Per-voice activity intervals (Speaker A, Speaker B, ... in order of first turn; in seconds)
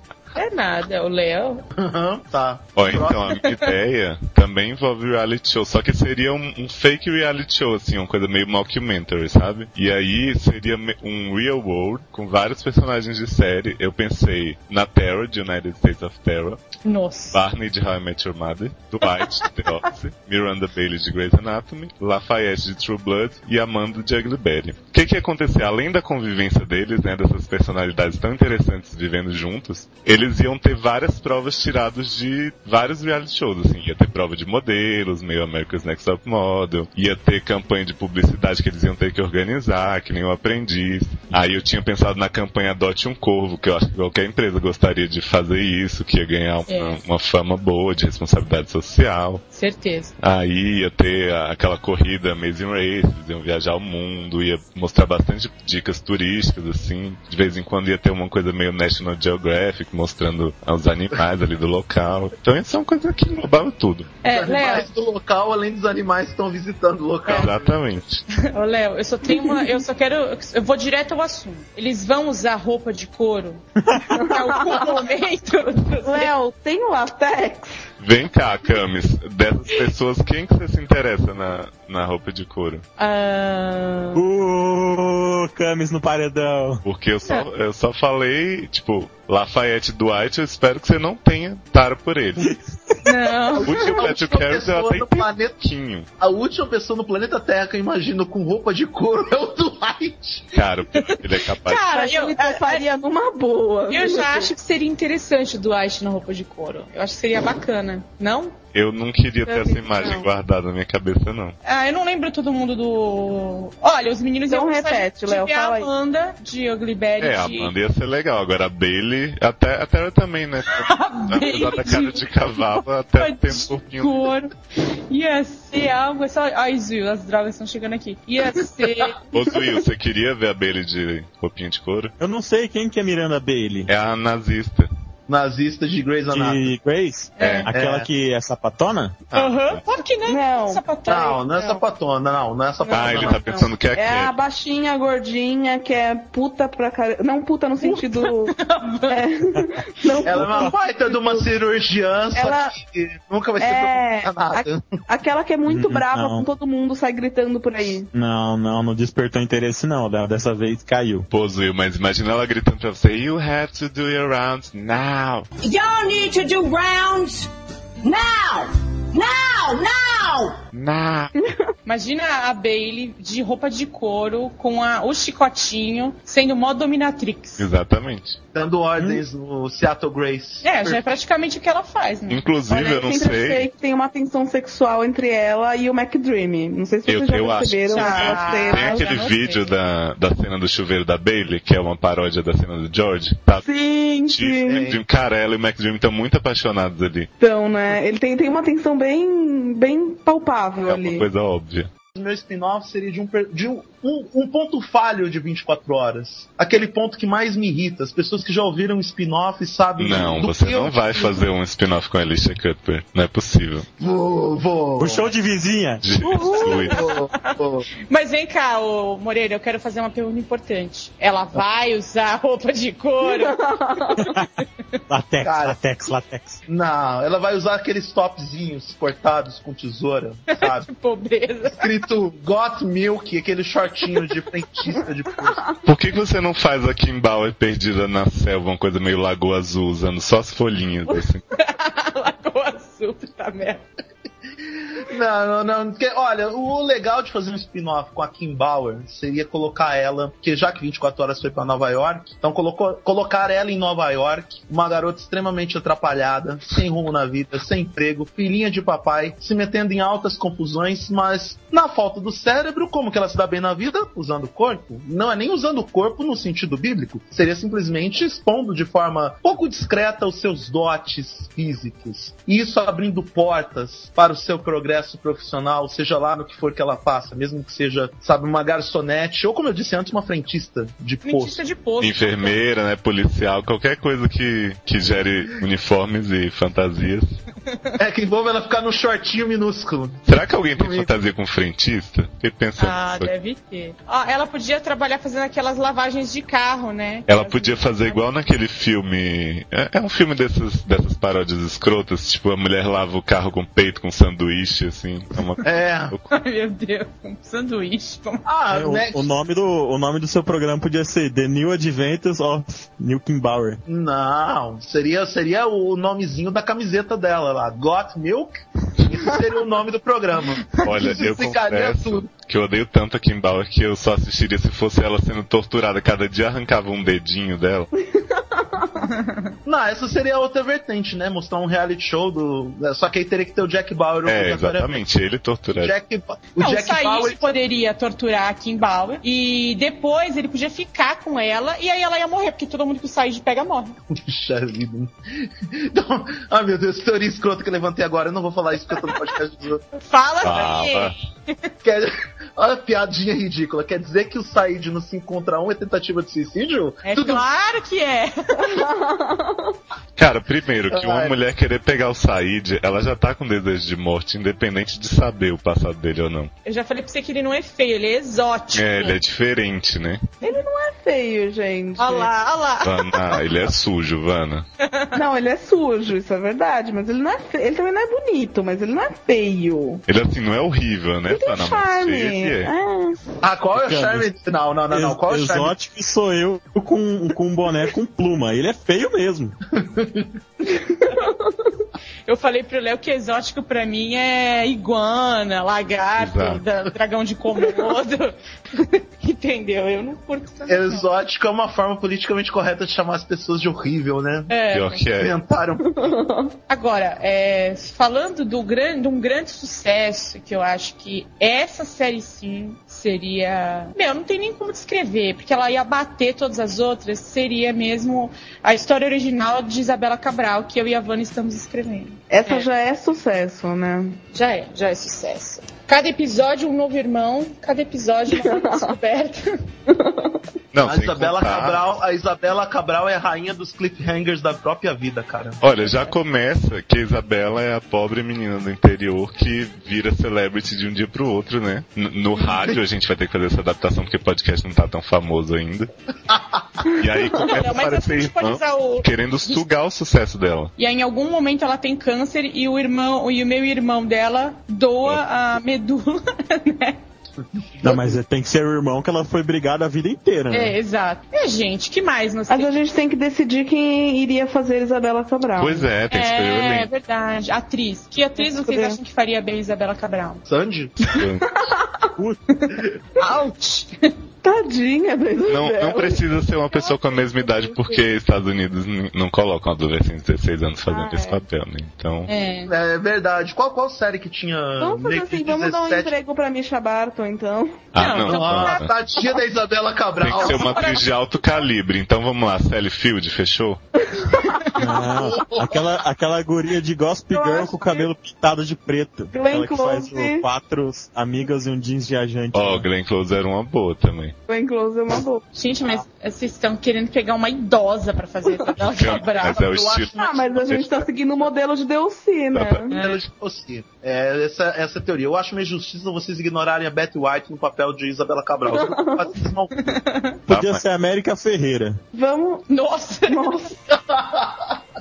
Speaker A: 0.4-1.6, 16.8-17.4, 19.0-19.4, 46.7-47.0, 49.5-50.1, 64.2-64.9, 68.4-76.3, 83.0-84.2, 93.0-94.1, 101.0-102.8, 103.9-108.6, 111.6-117.7, 120.7-124.5, 125.1-129.2, 137.4-137.7, 139.3-141.8, 142.9-143.7, 147.8-149.3, 171.8-177.7, 180.6-182.5, 187.9-189.7, 216.3-217.6, 218.1-223.6, 230.6-231.8, 241.5-243.8, 281.2-282.6, 292.8-298.2, 306.3-308.4, 329.0-329.5, 336.6-344.0, 350.0-351.6, 357.1-358.8, 366.6-369.2, 372.0-373.5, 392.3-401.0, 404.5-405.1, 406.7-422.7, 424.3-429.4, 435.8-436.1, 447.5-449.7, 450.8-457.0, 460.5-462.7, 466.1-470.4, 473.2-473.9, 482.3-482.7, 488.0-488.9, 490.4-491.1, 505.5-509.6, 512.9-513.2, 519.9-520.3, 522.7-523.7
Speaker B: 1.8-3.2, 64.2-67.8, 93.5-95.6, 96.2-100.5, 135.3-136.7, 137.7-138.1, 141.1-143.7, 150.2-155.0, 178.5-181.0, 194.7-195.0, 202.2-211.4, 214.0-215.3, 216.5-217.8, 225.4-225.8, 226.7-230.9, 231.7-235.7, 245.0-281.6, 288.0-290.2, 290.8-291.1, 305.6-306.1, 308.4-309.3, 313.9-318.6, 319.1-322.3, 329.6-335.1, 335.7-337.5, 344.1-349.8, 351.8-357.4, 360.9-361.4, 383.4-385.7, 389.8-390.3, 400.7-404.6, 405.2-406.1, 430.8-435.6, 446.3-446.6, 457.8-458.2, 470.5-471.2, 482.7-486.1, 488.3-491.0, 495.1-495.8, 509.4-510.7, 512.9-519.8, 523.9-524.8
Speaker C: 2.8-16.6, 17.3-49.4, 50.2-64.2, 67.3-68.2, 78.0-82.8, 86.8-92.5, 93.6-96.1, 100.5-101.8, 108.7-111.5, 117.2-124.3, 129.3-132.1, 133.9-134.9, 139.3-139.8, 142.9-144.3, 161.3-165.5, 170.7-171.3, 177.6-178.4, 182.3-183.7, 187.1-193.7, 194.3-197.3, 200.8-201.9, 210.0-213.9, 216.0-216.9, 235.8-241.4, 282.0-287.3, 290.3-293.3, 297.3-306.3, 320.8-327.9, 334.3-335.9, 350.4-351.1, 360.2-366.5, 368.7-370.2, 372.8-374.6, 380.1-382.7, 396.2-396.6, 404.7-405.3, 430.7-431.8, 435.6-445.9, 447.0-450.7, 465.6-466.9, 471.2-471.4, 475.5-482.3, 487.9-488.9, 490.2-493.8, 502.5-504.3, 508.9-511.0, 512.5-512.9, 520.5-520.8
Speaker D: 73.8-74.1, 84.2-86.8, 92.4-93.0, 132.2-133.9, 136.3-139.2, 150.3-150.7, 155.7-156.5, 158.1-161.3, 179.0-179.2, 215.0-216.1, 224.2-224.5, 225.1-226.6, 308.7-313.8, 383.8-384.3, 384.9-389.6, 457.8-460.8, 494.8-502.9, 520.5-522.0
Speaker E: 74.2-75.0, 76.0-77.8, 101.9-104.5, 109.5-110.2, 114.5-115.9, 140.3-140.9, 142.9-148.6, 149.1-151.5, 152.3-152.8, 153.6-158.1, 182.7-189.1, 193.6-194.8, 197.4-201.3, 223.3-224.3, 235.5-235.8, 328.2-328.9, 358.7-359.7, 370.4-372.3, 375.1-380.0, 381.3-383.2, 391.2-391.5, 406.0-406.5, 422.3-424.2, 428.4-428.9, 429.9-430.3, 462.5-465.9, 468.4-469.0, 471.5-472.1, 474.4-476.2, 476.7-478.0, 480.9-481.4, 484.8-487.9, 494.1-495.2, 497.3-498.1, 499.3-500.5, 504.5-505.4, 510.1-513.0, 518.7-519.3, 522.1-522.6, 523.3-523.7
Speaker F: 165.6-167.5, 168.0-170.6